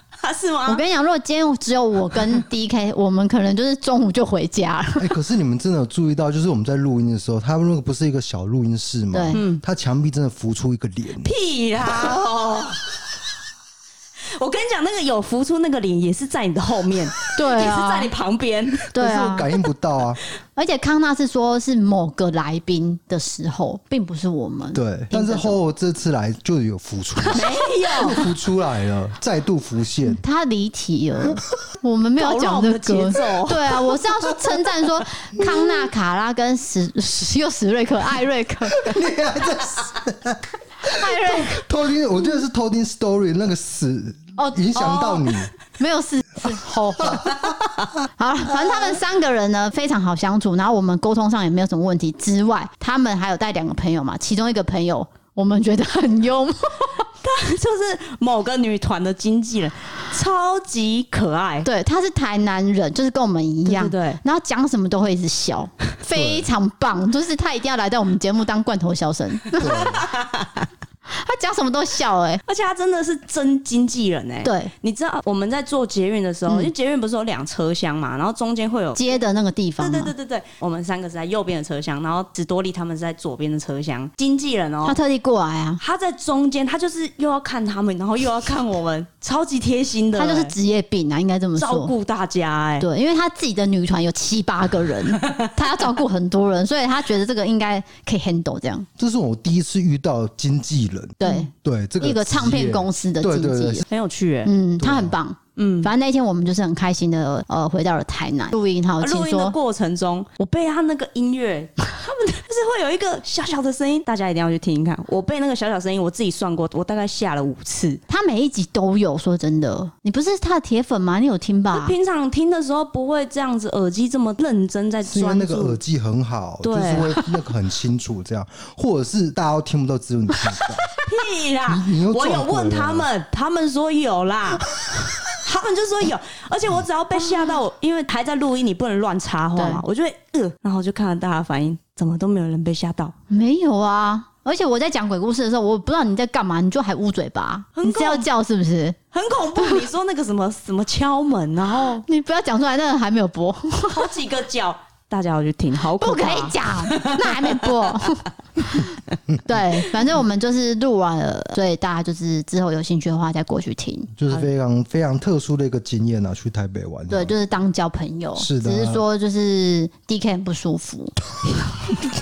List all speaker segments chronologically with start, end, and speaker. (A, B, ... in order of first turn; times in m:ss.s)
0:00.2-0:00.8 A
0:00.6-0:05.1 B
0:05.0-0:11.3 C
0:09.1-0:09.4 B
0:09.3-0:09.6 A
0:11.2-0:13.0 A
0:14.4-0:18.8 A
0:17.3-0:18.1 B
0:18.8-0:20.2 C
0:18.9-0:19.5 B
0:20.6-0:25.6 B
0:24.7-0:30.2 C
0:27.3-0:28.2 A
0:30.0-0:39.0 B
0:32.2-0:33.7 A
0:34.6-0:35.9 C
0:38.7-0:45.5 C
0:40.8-0:41.6 B
0:44.4-0:47.5 B
0:47.1-0:47.4 C
0:48.2-0:57.0 B
0:57.2-1:01.7 A
1:01.6-1:09.9 B
1:03.6-1:04.2 A
1:06.1-1:06.5 C
1:09.6-1:10.1 C
1:11.1-1:12.4 B
1:12.5-1:19.2 A
1:14.4-1:14.7 B
1:16.5-1:16.7 B
1:18.9-1:20.1 B
1:19.8-1:25.0 A
1:24.8-1:25.8 B
1:25.8-1:30.5 A
1:30.1-1:31.9 B
1:31.6-1:32.9 A
1:32.8-1:38.9 B
1:39.0-1:43.8 C
1:41.2-1:43.8 B
1:43.9-1:44.5 A
1:44.4-1:49.6 B
1:44.8-1:45.2 C
1:45.6-1:45.9 A
1:49.0-1:58.0 A
1:58.1-2:01.9 B
2:01.7-2:05.8 A
2:05.0-2:10.9 C
2:06.6-2:07.3 A
2:11.0-2:23.1 A
2:11.7-2:13.1 C
2:17.2-2:17.5 B
2:19.5-2:19.8 B
2:23.3-2:29.0 B
2:27.7-2:28.3 A
2:29.1-2:32.0 A
2:29.6-2:29.8 B
2:31.9-2:34.1 B
2:33.9-2:37.8 A
2:36.0-2:44.1 B
2:44.2-2:47.3 C
2:47.1-2:51.1 B
2:48.4-2:49.0 C